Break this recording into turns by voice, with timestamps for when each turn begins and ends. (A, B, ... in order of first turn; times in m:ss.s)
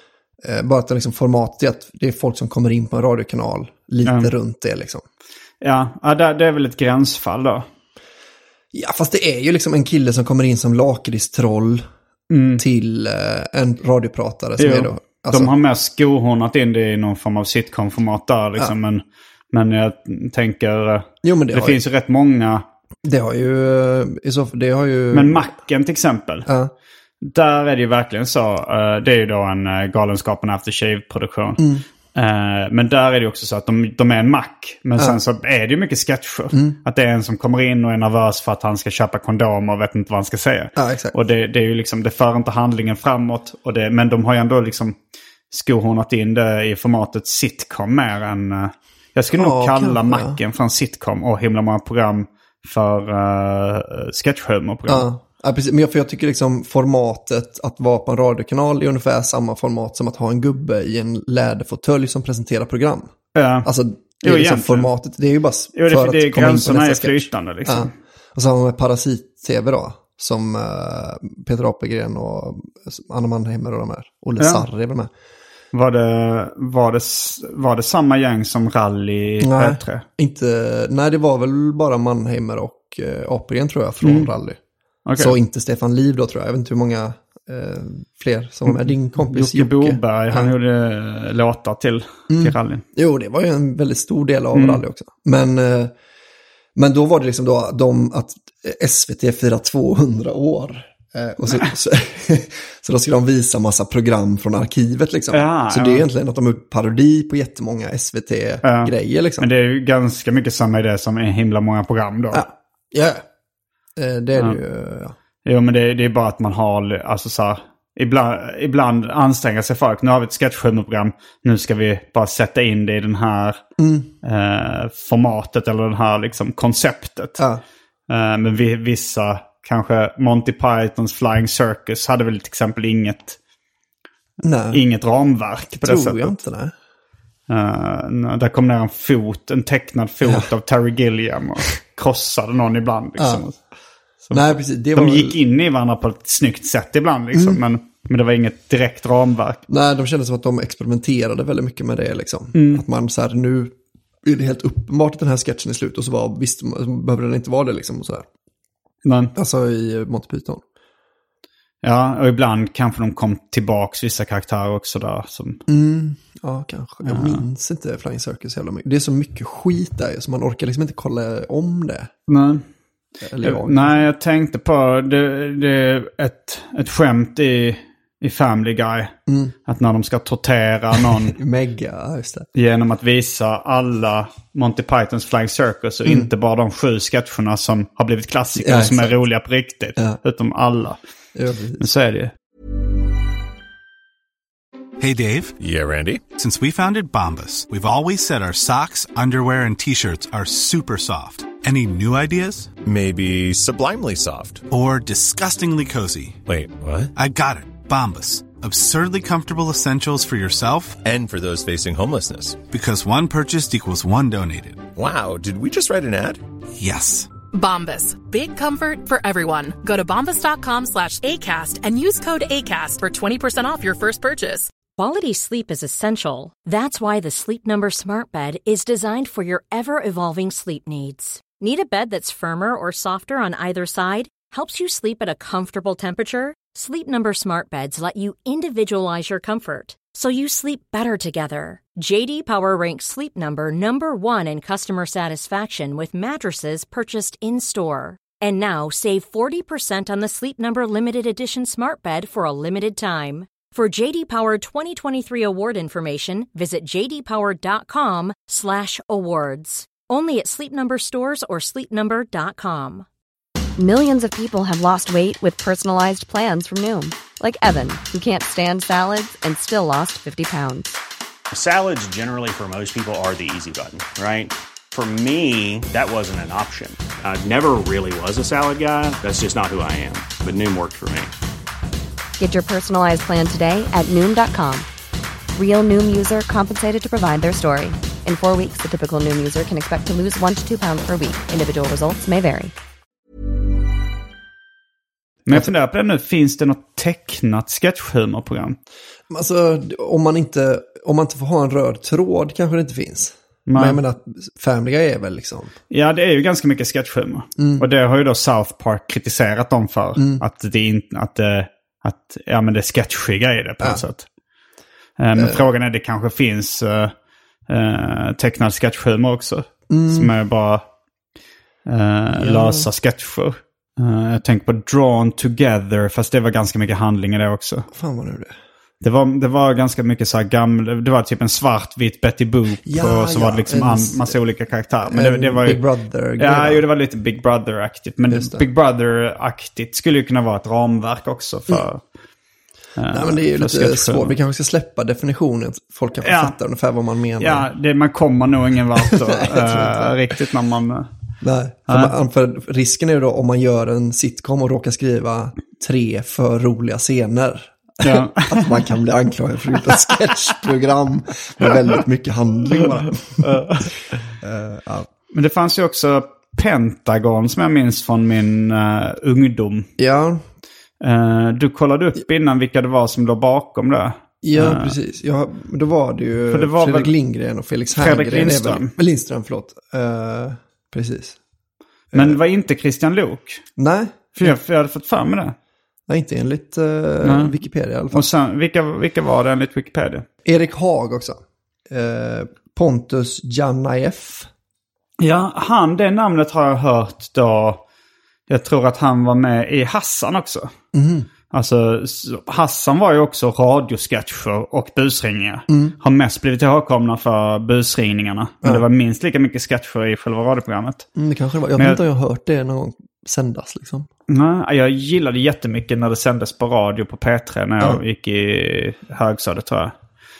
0:00.4-0:05.0 A
0:05.6-0:07.6 B
0:08.7-0:11.8 A
0:12.3-0:12.6 B
0:12.6-0:15.5 A
0:14.6-0:22.6 B
0:21.2-0:21.8 A
0:23.0-0:25.4 A
0:25.1-0:26.5 B
0:26.4-0:26.7 A
0:27.2-0:44.9 B
0:31.6-0:31.8 A
0:36.5-0:36.8 A
0:40.8-0:41.2 A
0:45.5-0:55.1 B
0:49.3-0:50.4 A
0:54.9-1:15.1 A
1:03.3-1:04.9 B
1:05.8-1:07.9 B
1:14.4-1:14.6 B
1:15.7-1:20.0 B
1:19.4-1:24.6 A
1:24.0-1:24.3 B
1:25.0-1:25.4 B
1:25.2-1:30.5 A
1:28.6-1:32.8 B
1:32.3-1:35.9 A
1:34.5-1:34.8 B
1:36.8-1:49.5 A
1:45.3-1:46.0 B
1:48.6-1:52.4 B
1:52.3-1:53.2 A
1:54.0-1:55.1 A
1:55.4-2:03.6 B
2:03.8-2:04.1 A
2:04.2-2:07.4 B
2:08.1-2:13.4 B
2:14.4-2:14.8 A
2:14.7-2:16.3 B
2:15.8-2:16.7 A
2:17.5-2:23.6 B
2:20.2-2:20.5 A
2:23.2-2:23.4 A
2:24.2-2:29.6 B
2:24.3-2:25.4 A
2:27.3-2:27.6 A
2:29.7-2:38.2 A
2:32.5-2:32.8 B
2:39.0-2:39.3 B
2:39.4-2:40.6 A
2:41.8-2:45.6 B
2:45.7-2:52.1 A
2:47.0-2:47.4 B
2:52.3-2:52.6 B
2:53.2-2:54.0 A
2:53.4-2:59.1 B
2:59.3-2:59.5 A
2:59.7-3:01.4 B
3:01.0-3:02.5 A
3:02.5-3:11.0 B
3:06.0-3:06.3 A
3:08.6-3:09.2 A
3:11.3-3:11.8 A
3:11.8-3:12.3 B
3:15.0-3:15.6 C
3:15.6-3:16.2 D
3:16.3-3:22.7 C
3:22.8-3:24.6 D
3:24.7-3:26.4 C
3:26.4-3:27.1 D
3:27.1-3:31.0 C
3:31.0-3:32.6 D
3:32.6-3:34.9 C
3:35.0-3:36.4 D
3:36.8-3:37.3 C
3:37.5-3:44.7 E
3:44.9-4:23.0 F
4:23.8-4:30.9 G
4:31.5-4:41.3 H
4:42.4-4:44.9 G
4:45.5-4:52.7 G
4:55.4-4:58.8 B
4:59.3-5:05.7 A
5:03.7-5:04.0 B
5:05.9-5:14.3 B
5:07.6-5:07.8 A
5:15.2-5:17.1 B
5:15.4-5:15.6 A
5:17.7-5:20.8 B
5:19.9-5:20.3 A
5:21.8-5:27.8 B
5:22.3-5:22.8 A
5:27.9-5:28.5 A
5:29.0-5:35.8 B
5:32.8-5:34.3 A
5:35.1-5:36.8 A
5:36.4-5:42.0 B
5:38.3-5:38.6 A
5:43.0-5:44.4 B
5:43.1-5:47.7 A
5:46.2-5:46.6 B
5:47.4-5:51.1 B
5:49.0-5:50.2 A
5:51.4-6:03.6 A
5:51.9-5:52.1 B
5:58.0-5:58.8 B
6:03.4-6:04.2 B
6:04.4-6:05.1 A
6:05.3-6:09.9 B
6:10.0-6:10.4 A
6:11.0-6:15.0 B
6:14.4-6:21.4 A
6:16.5-6:17.1 B
6:17.9-6:18.9 B
6:22.1-6:22.4 A
6:22.1-6:23.6 B
6:23.8-6:24.6 A
6:24.4-6:25.5 B
6:26.1-6:28.3 A
6:27.2-6:27.5 B
6:28.1-6:30.2 B
6:30.4-6:31.4 A
6:31.9-6:34.5 A
6:35.2-6:37.8 B
6:38.5-6:40.7 B
6:40.9-6:41.3 A
6:41.5-6:51.0 B
6:45.7-6:45.9 A
6:51.2-6:54.1 A
6:54.3-6:59.9 B